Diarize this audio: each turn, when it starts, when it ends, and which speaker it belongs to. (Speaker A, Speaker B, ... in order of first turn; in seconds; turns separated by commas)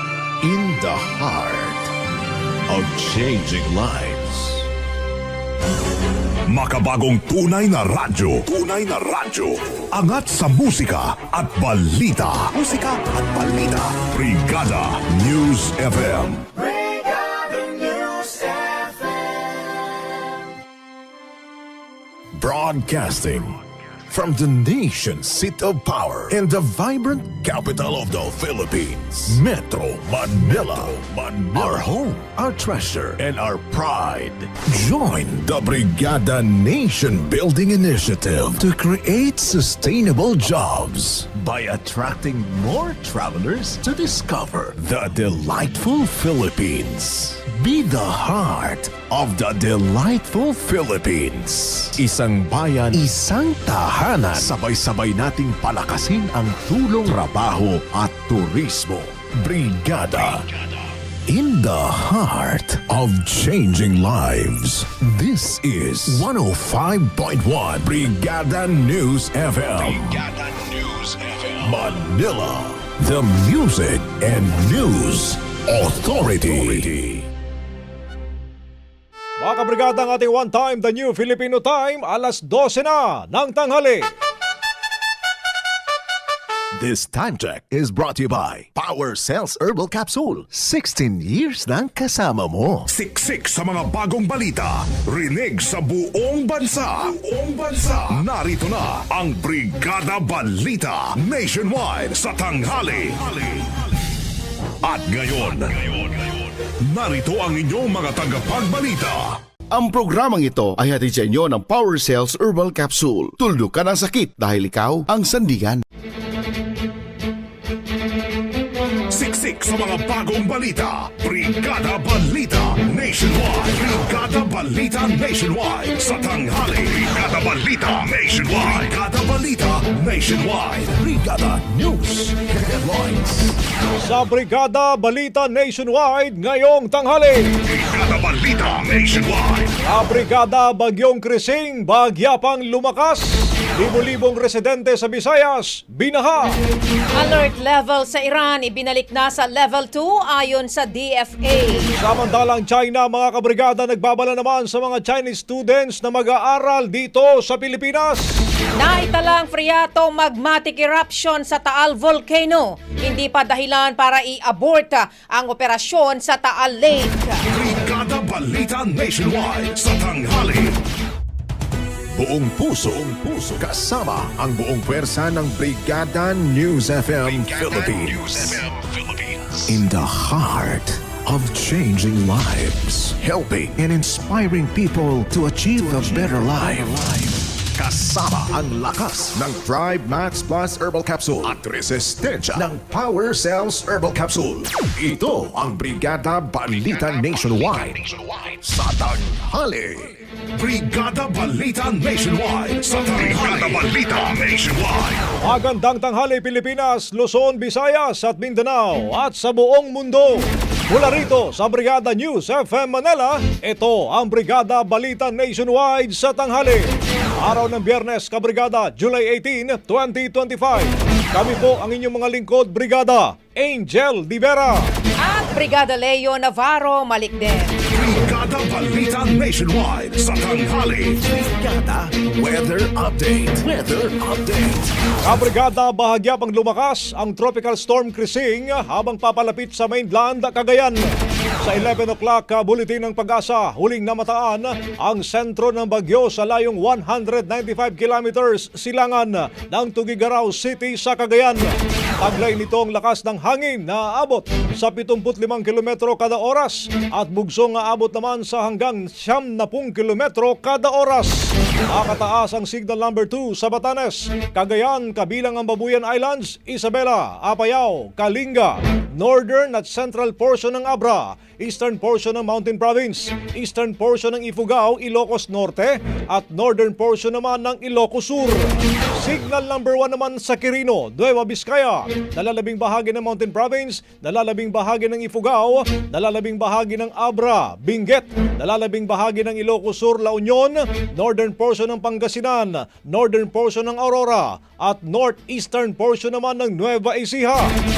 Speaker A: 0.4-1.9, Speaker A: 2.7-4.7, Speaker B: 6.5-16.5, Speaker A: 22.4-60.5, Speaker A: 61.3-70.3, Speaker B: 69.9-70.2, Speaker B: 70.7-71.1, Speaker A: 71.5-77.3, Speaker C: 79.4-84.1, Speaker A: 86.7-92.9, Speaker B: 92.9-103.8, Speaker B: 104.8-109.4, Speaker D: 109.7-115.8, Speaker B: 119.1-131.0, Speaker A: 131.0-133.6, Speaker C: 134.0-137.6, Speaker B: 137.6-139.7, Speaker C: 139.8-146.5, Speaker E: 147.2-151.9, Speaker C: 152.0-158.3, Speaker E: 158.8-167.4, Speaker B: 167.5-170.8, Speaker A: 172.2-200.1, Speaker B: 200.6-205.2, Speaker C: 205.4-216.8, Speaker C: 217.4-224.9, Speaker E: 225.2-227.7, Speaker B: 227.9-231.2, Speaker A: 231.3-235.1, Speaker C: 235.2-241.1, Speaker C: 241.6-251.7, Speaker C: 252.2-297.7